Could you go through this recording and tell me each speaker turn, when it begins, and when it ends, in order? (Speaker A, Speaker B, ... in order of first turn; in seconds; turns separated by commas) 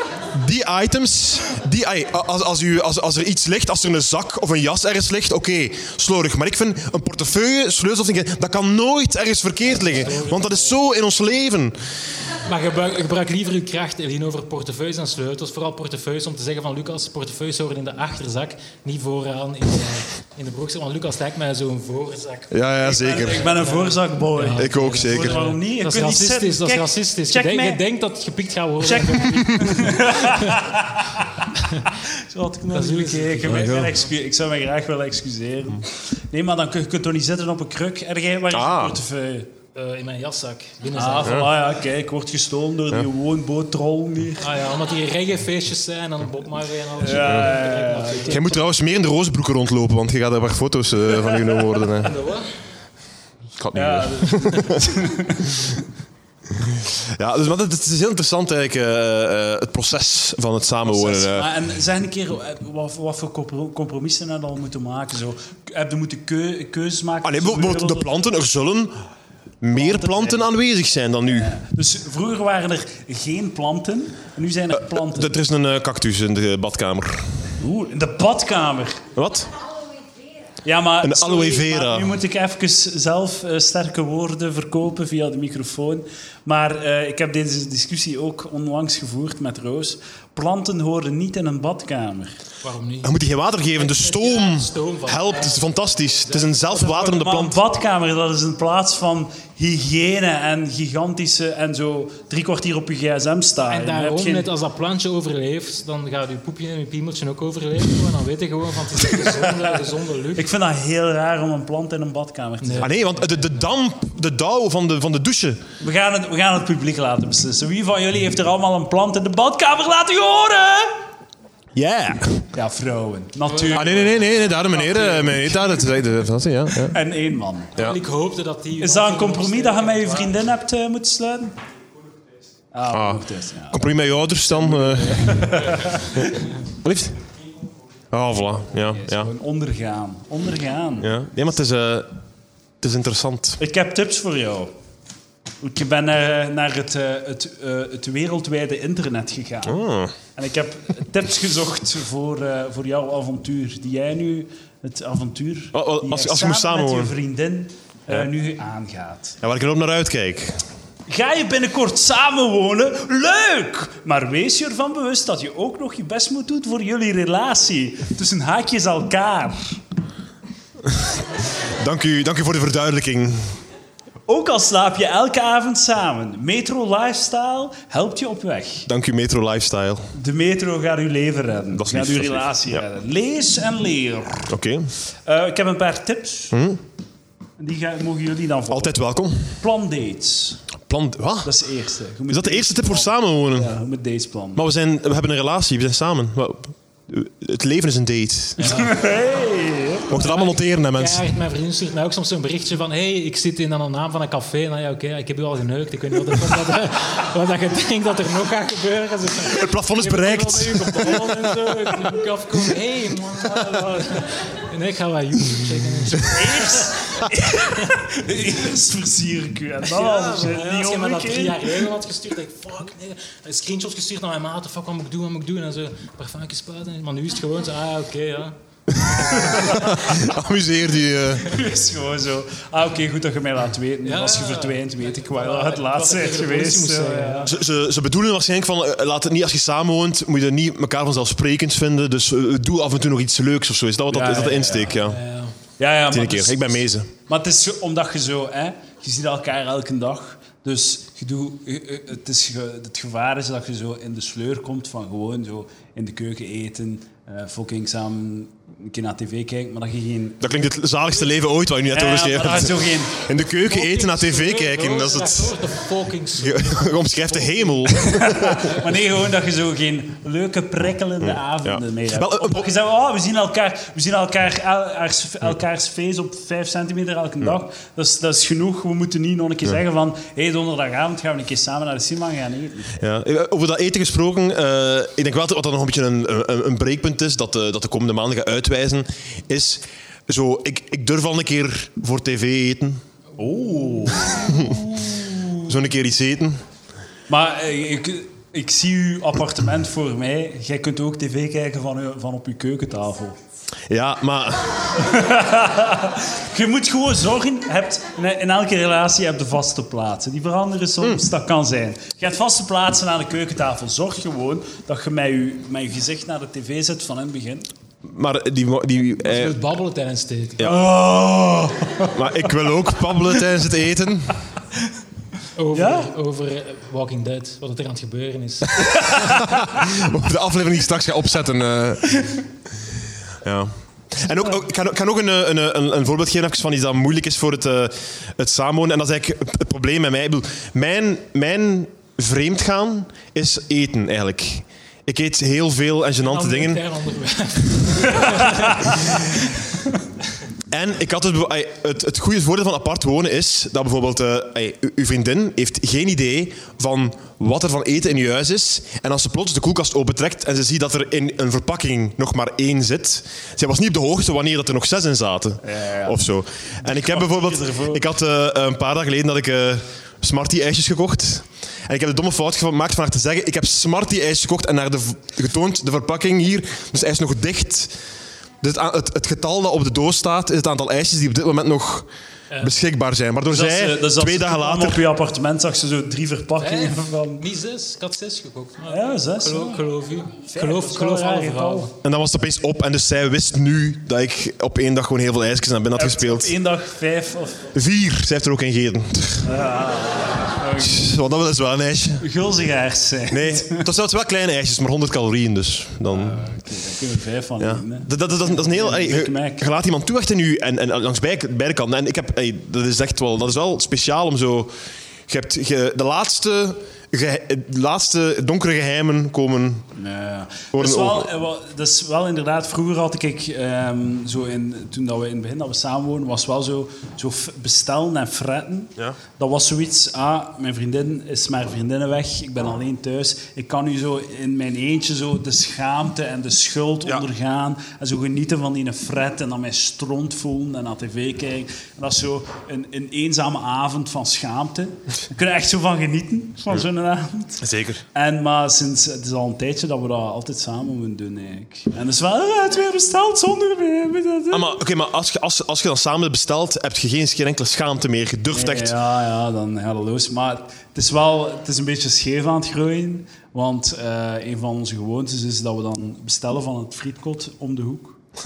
Speaker A: 0.3-11.8, Speaker B: 9.7-10.8, Speaker B: 12.4-30.7, Speaker A: 22.5-23.5, Speaker C: 22.8-27.8, Speaker A: 24.6-25.4, Speaker C: 28.8-31.4, Speaker B: 31.6-31.9, Speaker C: 32.1-39.5, Speaker B: 32.7-34.0, Speaker A: 33.5-33.9, Speaker A: 38.5-39.0, Speaker B: 39.8-41.5, Speaker C: 40.9-44.5, Speaker A: 41.2-41.5, Speaker B: 44.4-48.6, Speaker C: 47.0-48.6, Speaker A: 47.2-47.5, Speaker A: 48.3-52.1, Speaker B: 51.9-52.5, Speaker A: 53.6-54.9, Speaker C: 53.7-55.7, Speaker A: 56.6-61.5, Speaker C: 60.9-68.1, Speaker A: 67.2-68.9, Speaker A: 69.6-71.6, Speaker C: 69.7-70.5, Speaker C: 71.3-75.3, Speaker A: 75.0-77.5, Speaker C: 77.6-79.1, Speaker A: 79.1-79.5, Speaker C: 80.6-92.4, Speaker A: 81.0-82.2, Speaker B: 92.6-93.1, Speaker A: 93.0-97.6, Speaker B: 93.8-95.7, Speaker B: 96.3-96.6, Speaker C: 96.7-104.5, Speaker B: 103.7-110.5, Speaker C: 109.1-109.5, Speaker C: 110.3-112.9, Speaker B: 112.6-113.6, Speaker A: 112.8-115.6, Speaker C: 115.8-120.9, Speaker A: 121.8-122.5, Speaker C: 122.5-124.2, Speaker B: 123.5-125.4, Speaker A: 123.7-127.0, Speaker C: 124.8-125.3, Speaker C: 126.9-127.8, Speaker B: 127.8-130.5, Speaker C: 128.8-131.6, Speaker C: 132.7-133.8, Speaker A: 132.9-136.2, Speaker C: 134.5-136.2, Speaker A: 136.8-137.2, Speaker A: 138.1-139.3, Speaker C: 138.9-141.1, Speaker A: 141.0-142.1, Speaker A: 142.8-143.6, Speaker C: 143.6-144.7, Speaker C: 145.6-159.4, Speaker A: 149.7-150.2, Speaker A: 155.7-157.1, Speaker A: 159.4-160.6, Speaker C: 161.1-169.8, Speaker A: 170.9-173.6, Speaker C: 174.3-178.9, Speaker A: 178.9-180.1, Speaker C: 180.1-184.5, Speaker A: 181.7-182.8, Speaker A: 184.5-184.9, Speaker C: 185.2-186.6, Speaker A: 186.5-186.8, Speaker C: 187.6-189.0, Speaker A: 188.7-189.5, Speaker C: 189.6-190.6, Speaker A: 190.9-191.5, Speaker C: 191.4-194.6, Speaker A: 192.3-193.7, Speaker A: 194.5-198.9, Speaker B: 198.6-198.9, Speaker C: 198.6-200.1, Speaker A: 200.1-201.2, Speaker B: 200.1-217.2, Speaker A: 209.4-211.6, Speaker C: 216.2-221.9, Speaker B: 219.9-228.5, Speaker B: 229.1-229.8, Speaker C: 229.4-229.8, Speaker A: 229.4-231.5, Speaker C: 231.4-237.5, Speaker B: 234.0-237.5, Speaker A: 237.5-245.2, Speaker C: 244.1-245.0, Speaker B: 245.0-245.5, Speaker C: 245.8-260.4, Speaker A: 246.1-247.1, Speaker A: 260.4-265.6, Speaker C: 261.9-263.2, Speaker B: 263.5-268.1, Speaker A: 266.4-268.7, Speaker C: 268.0-282.9, Speaker A: 271.2-272.7, Speaker A: 283.0-293.0, Speaker C: 293.4-295.7, Speaker A: 294.3-294.9, Speaker A: 295.6-296.6, Speaker C: 297.3-303.4, Speaker A: 303.9-304.9, Speaker C: 305.0-317.7, Speaker A: 318.0-319.6, Speaker B: 319.2-320.7, Speaker C: 320.6-322.5, Speaker A: 322.1-324.4, Speaker B: 325.6-329.4, Speaker C: 325.7-326.1, Speaker A: 328.9-332.2, Speaker A: 333.4-346.8, Speaker B: 346.2-349.6, Speaker A: 350.7-377.9, Speaker C: 365.6-366.3, Speaker C: 366.8-368.1, Speaker A: 378.6-382.1, Speaker A: 382.6-385.0, Speaker C: 383.5-387.4, Speaker B: 386.6-391.9, Speaker C: 388.9-389.9, Speaker C: 390.4-391.9, Speaker A: 392.0-396.5, Speaker C: 395.9-397.7, Speaker A: 397.7-399.5, Speaker C: 399.4-401.1, Speaker A: 400.8-402.2, Speaker C: 402.2-403.9, Speaker A: 403.3-406.5, Speaker C: 406.1-409.6, Speaker A: 407.6-414.8, Speaker A: 415.3-419.9, Speaker C: 419.9-454.7, Speaker A: 420.7-421.3, Speaker A: 447.6-448.0, Speaker A: 454.5-458.9, Speaker C: 458.5-468.2